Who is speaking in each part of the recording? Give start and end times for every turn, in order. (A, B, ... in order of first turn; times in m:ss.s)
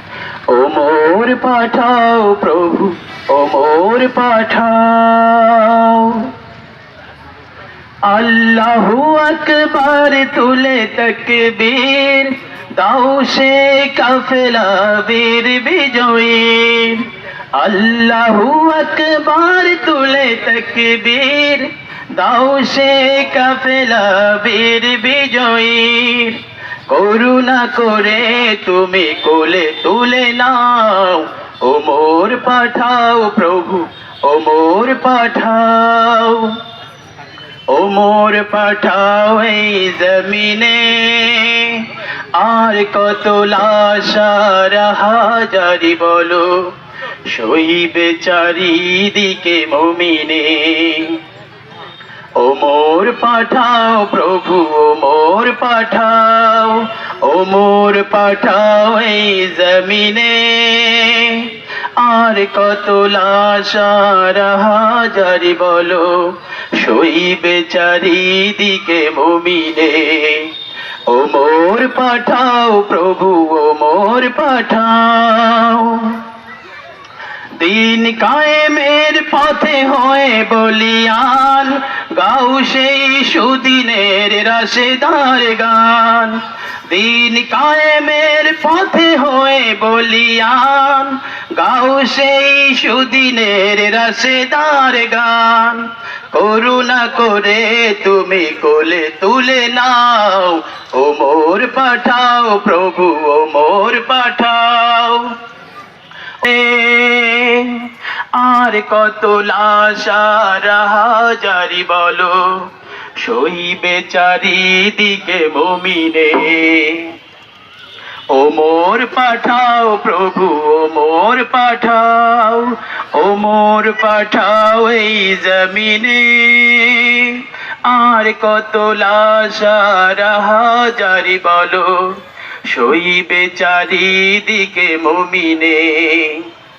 0:00.5-0:06.3 A
0:08.0-0:36.6 A
0:37.7-0:46.7 A
0:47.3-0:51.2 A
0:52.4-1:10.5 A
1:11.1-1:16.2 A
1:17.6-1:45.4 A
1:46.4-1:57.1 A
1:58.3-2:16.5 A